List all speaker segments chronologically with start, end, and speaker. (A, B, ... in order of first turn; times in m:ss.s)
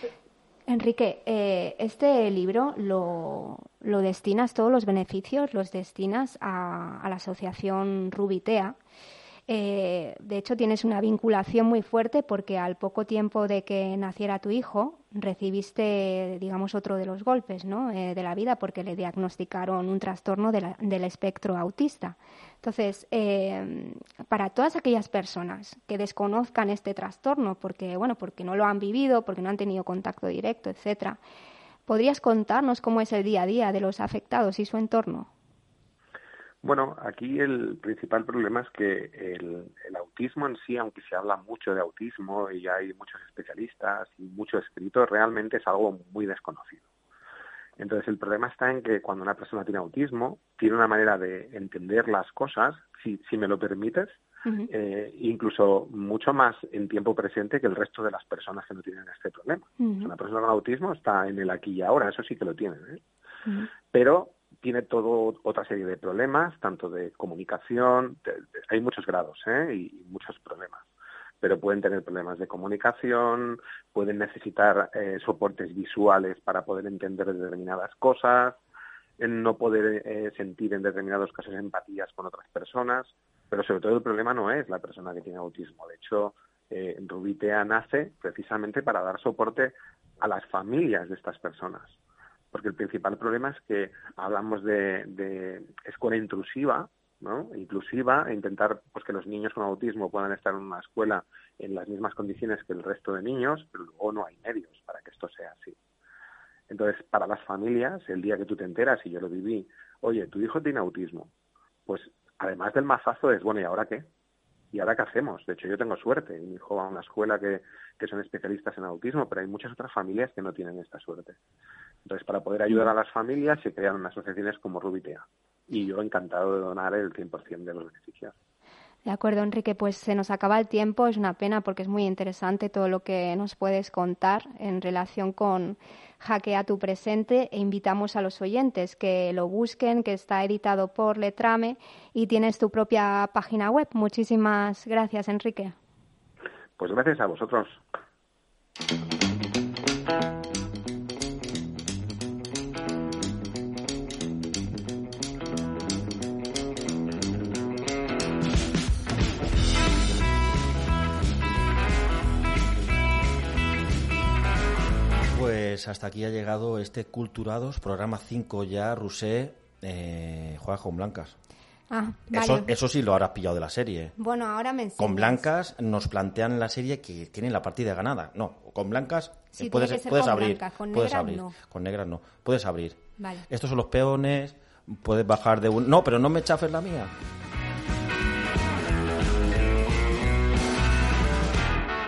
0:00.7-0:08.8 A
0:09.5-0:31.2 A
0:31.9-0:35.3 A
0:36.6-0:46.8 B
0:47.8-1:03.0 B
0:59.8-1:00.1 A
1:03.9-1:10.9 B
1:11.4-1:18.6 B
1:19.2-1:32.0 B
1:32.5-1:45.8 B
1:46.7-1:51.3 B
1:51.9-1:54.1 B
1:54.7-2:01.4 B
2:02.0-2:08.3 B
2:09.0-2:25.8 A
2:26.8-2:27.8 B
2:45.3-2:51.4 C
2:51.9-2:52.7 A
2:52.3-2:54.1 C
2:54.2-2:55.4 A
2:55.0-3:07.1 C
2:59.5-3:01.5 A
3:03.2-3:03.4 A